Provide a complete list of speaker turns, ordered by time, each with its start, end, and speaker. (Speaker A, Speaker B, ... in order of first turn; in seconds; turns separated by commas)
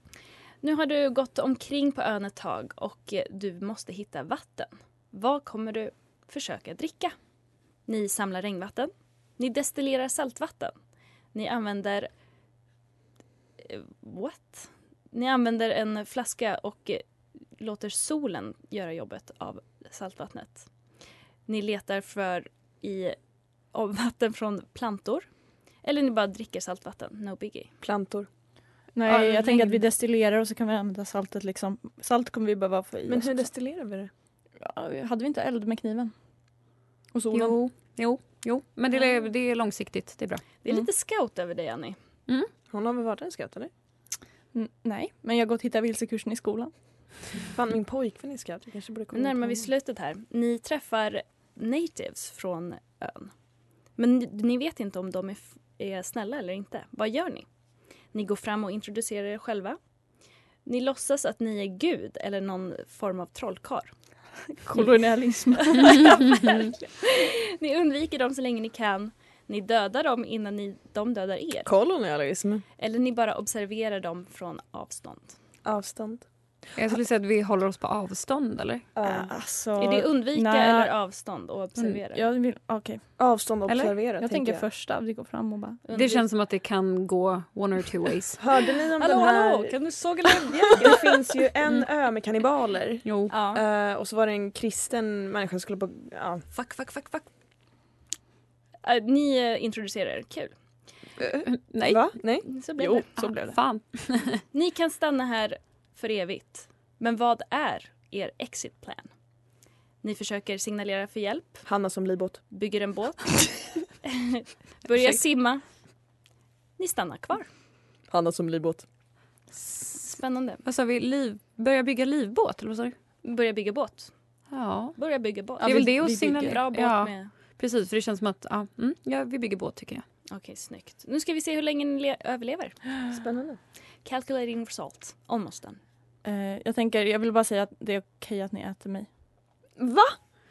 Speaker A: 0.6-7.1, Speaker A: 7.9-10.7, Speaker A: 11.3-12.1, Speaker A: 13.6-17.0, Speaker A: 17.6-20.6, Speaker A: 21.5-23.1, Speaker A: 23.7-25.2, Speaker A: 25.8-27.7, Speaker B: 27.8-28.3, Speaker C: 28.9-33.5, Speaker B: 29.1-29.6, Speaker B: 33.1-34.1, Speaker C: 34.6-36.1, Speaker C: 37.1-37.6, Speaker D: 37.3-40.4, Speaker A: 40.6-42.0, Speaker B: 42.7-43.7, Speaker C: 44.5-46.7, Speaker B: 47.5-49.7, Speaker A: 49.1-53.3, Speaker A: 54.0-57.5, Speaker A: 58.1-59.8, Speaker A: 60.6-63.9, Speaker C: 64.6-66.1, Speaker A: 65.7-71.7, Speaker B: 71.7-72.6, Speaker A: 72.8-75.4, Speaker B: 75.6-76.2, Speaker D: 76.8-78.8, Speaker B: 79.0-79.3, Speaker C: 79.0-80.9, Speaker A: 79.8-82.2, Speaker C: 82.1-83.1, Speaker B: 83.2-84.6, Speaker C: 83.7-85.8, Speaker A: 85.8-86.2, Speaker D: 86.0-88.4, Speaker B: 88.4-89.7, Speaker A: 89.0-91.1, Speaker B: 90.3-96.4, Speaker D: 93.0-93.4, Speaker A: 93.3-93.6, Speaker A: 96.5-97.3, Speaker A: 98.8-100.5, Speaker B: 101.2-102.5, Speaker D: 101.5-102.1, Speaker A: 102.5-103.0, Speaker C: 102.8-103.6, Speaker D: 103.2-104.4, Speaker A: 104.5-109.1, Speaker A: 110.0-111.7, Speaker B: 111.7-112.4, Speaker A: 112.5-113.5, Speaker A: 114.0-115.6, Speaker A: 116.8-117.5, Speaker B: 118.1-118.8, Speaker A: 119.8-120.6, Speaker D: 120.6-123.0, Speaker A: 123.2-124.1, Speaker D: 124.5-125.0, Speaker A: 125.0-127.3, Speaker D: 125.6-130.0, Speaker C: 125.6-126.6, Speaker A: 130.3-132.8, Speaker B: 133.1-133.6, Speaker A: 134.0-135.8, Speaker C: 136.2-139.1, Speaker B: 139.8-140.2